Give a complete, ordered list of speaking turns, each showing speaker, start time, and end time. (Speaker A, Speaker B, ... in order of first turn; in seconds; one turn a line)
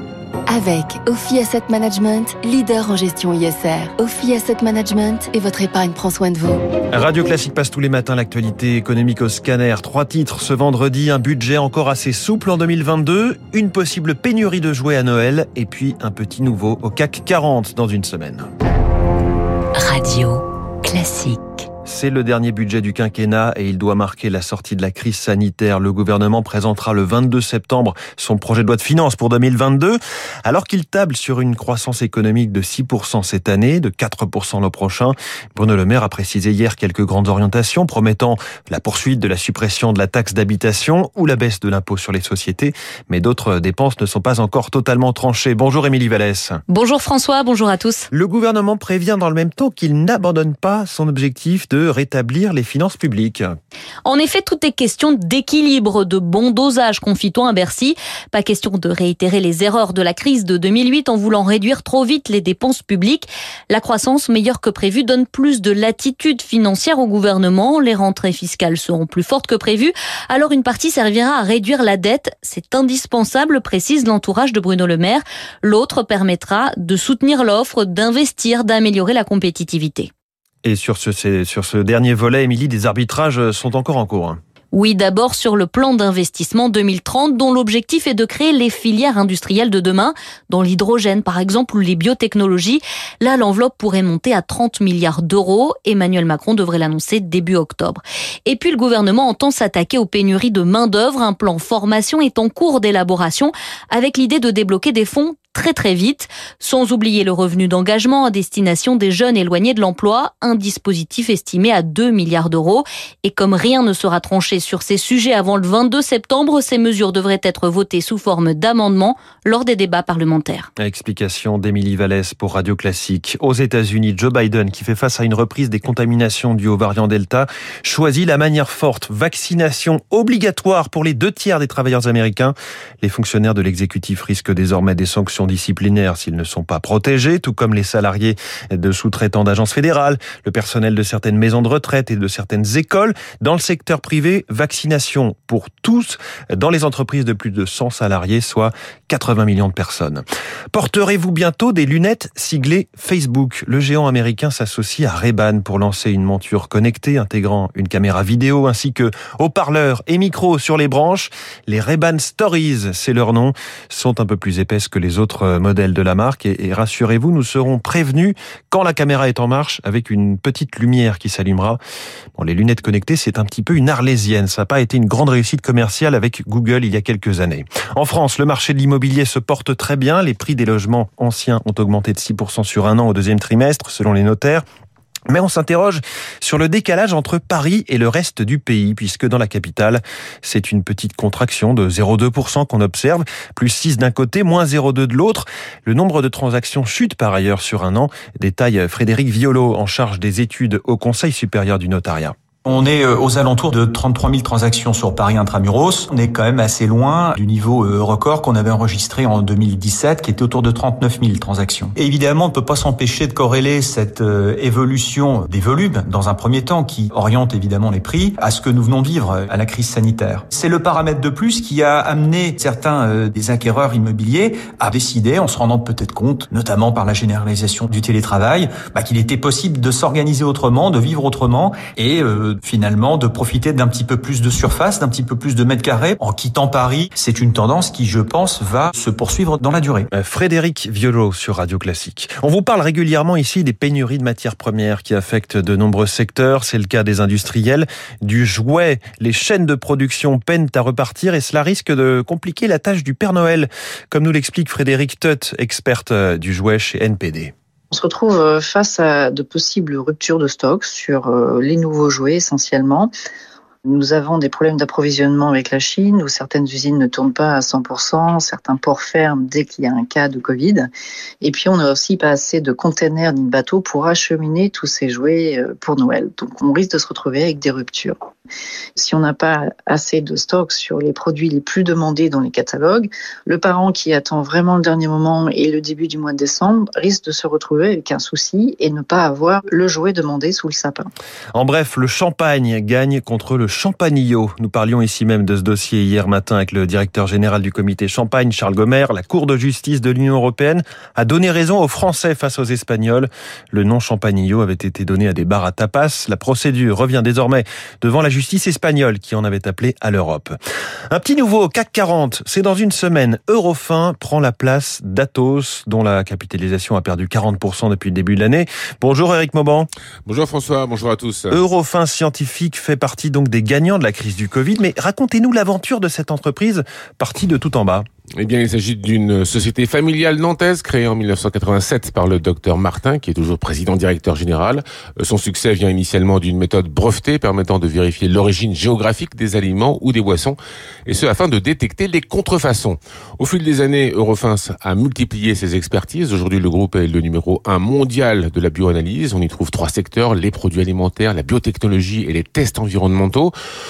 Speaker A: 0.5-6.6
Speaker B: 6.9-18.5
Speaker C: 19.7-21.6
Speaker B: 21.9-46.6
Speaker D: 46.7-48.1
Speaker B: 48.1-53.5
Speaker D: 54.0-80.1
Speaker B: 80.6-84.4
Speaker D: 84.7-120.7
Speaker B: 120.8-171.8
Speaker B: 172.4-184.6
Speaker B: 185.3-202.3
Speaker E: 202.7-240.1
Speaker B: 240.1-257.5
Speaker F: 257.9-263.1
Speaker F: 263.8-278.2
Speaker F: 278.9-291.1
Speaker B: 291.5-310.5
Speaker B: 311.1-319.9
Speaker G: 320.2-321.6
Speaker B: 321.5-328.0
Speaker G: 328.4-353.5